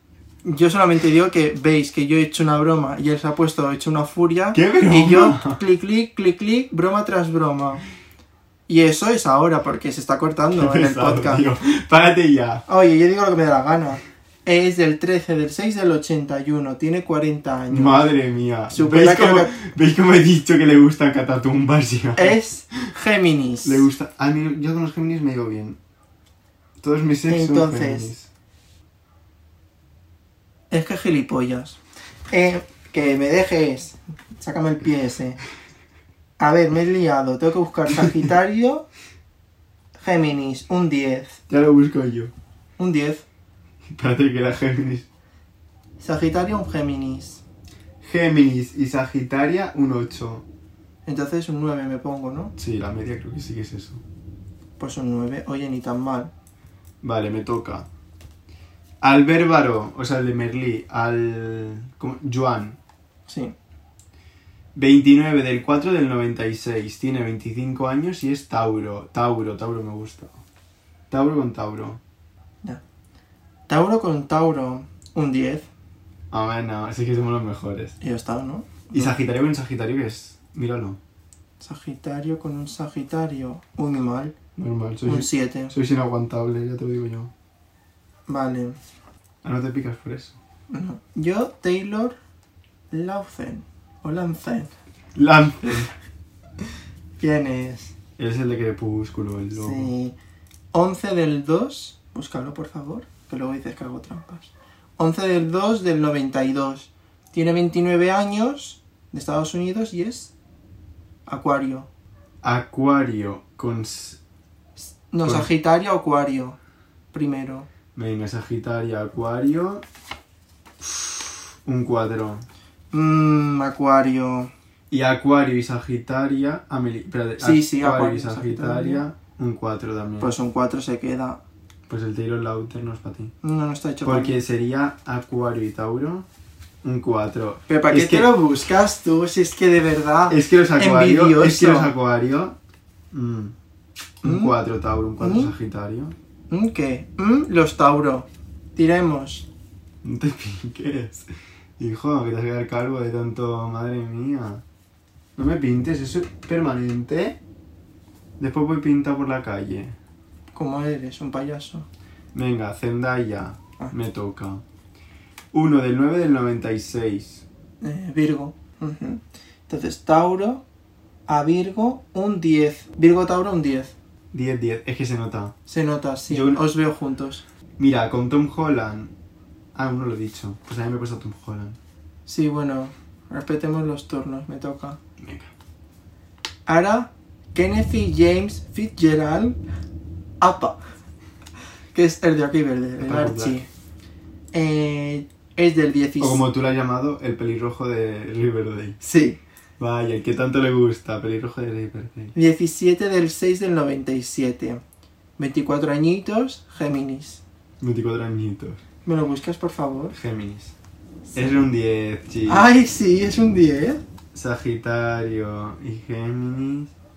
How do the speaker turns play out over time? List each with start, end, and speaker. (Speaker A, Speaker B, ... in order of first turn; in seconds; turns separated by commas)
Speaker A: 0.5-7.8, Speaker B: 4.5-5.6, Speaker A: 8.7-11.4, Speaker B: 10.5-12.7, Speaker A: 12.7-18.1, Speaker B: 17.7-22.4, Speaker A: 18.7-19.6, Speaker A: 22.2-23.9, Speaker B: 23.6-25.8, Speaker B: 26.8-28.3, Speaker A: 27.3-28.1, Speaker A: 30.7-31.8, Speaker A: 32.3-35.4, Speaker A: 36.4-38.9, Speaker A: 40.0-41.4, Speaker B: 41.5-42.3, Speaker A: 42.8-43.2, Speaker B: 43.9-45.1, Speaker A: 46.0-47.4, Speaker B: 48.0-50.5, Speaker A: 51.1-52.5, Speaker B: 52.6-54.0, Speaker A: 54.8-56.3, Speaker B: 57.0-57.9, Speaker B: 59.0-62.8, Speaker A: 63.3-63.5, Speaker B: 64.8-70.3, Speaker B: 71.1-72.0, Speaker A: 73.7-75.7, Speaker B: 76.3-78.0, Speaker A: 78.0-79.2, Speaker B: 78.9-81.0, Speaker A: 81.6-84.4, Speaker B: 84.6-87.3, Speaker A: 85.0-85.7, Speaker A: 88.3-88.8, Speaker B: 89.4-90.4, Speaker A: 90.7-92.2, Speaker A: 92.9-94.7, Speaker B: 95.2-95.9, Speaker A: 97.2-98.0, Speaker B: 98.2-99.9, Speaker A: 99.6-100.2, Speaker A: 100.7-110.3, Speaker A: 111.3-111.9, Speaker B: 112.4-114.2, Speaker A: 115.1-116.6, Speaker B: 115.2-115.5, Speaker A: 117.1-117.7, Speaker B: 118.0-119.8, Speaker B: 120.8-122.5, Speaker A: 122.9-124.5, Speaker B: 124.9-130.3, Speaker A: 127.4-129.0, Speaker A: 130.2-131.4, Speaker B: 131.9-133.3, Speaker A: 133.4-134.4, Speaker B: 134.0-136.3, Speaker B: 136.8-138.3, Speaker A: 137.7-141.9, Speaker B: 140.3-142.6, Speaker B: 143.1-143.6, Speaker B: 144.2-146.2, Speaker A: 144.2-144.6, Speaker A: 145.2-145.6, Speaker A: 146.5-149.5, Speaker B: 150.0-151.3, Speaker B: 151.8-154.6, Speaker B: 155.4-157.4, Speaker B: 158.4-160.0, Speaker A: 160.5-161.9, Speaker B: 162.3-164.6, Speaker B: 165.5-167.5, Speaker A: 167.8-170.6, Speaker A: 171.3-173.9, Speaker B: 174.3-175.6, Speaker A: 175.7-177.4, Speaker B: 176.3-176.6, Speaker B: 177.8-179.1, Speaker B: 179.8-181.8, Speaker A: 182.3-185.0, Speaker B: 185.2-185.5, Speaker A: 186.7-189.6, Speaker A: 190.4-190.8, Speaker A: 191.9-193.7, Speaker B: 193.0-193.7, Speaker A: 194.5-196.4, Speaker B: 196.2-199.0, Speaker A: 199.0-199.4, Speaker B: 199.8-202.3, Speaker A: 202.3-204.8, Speaker A: 205.4-207.4, Speaker B: 207.8-208.8, Speaker A: 209.1-210.2, Speaker B: 210.1-210.8, Speaker A: 211.3-211.6, Speaker B: 211.3-212.7, Speaker A: 212.5-214.0, Speaker B: 214.3-216.9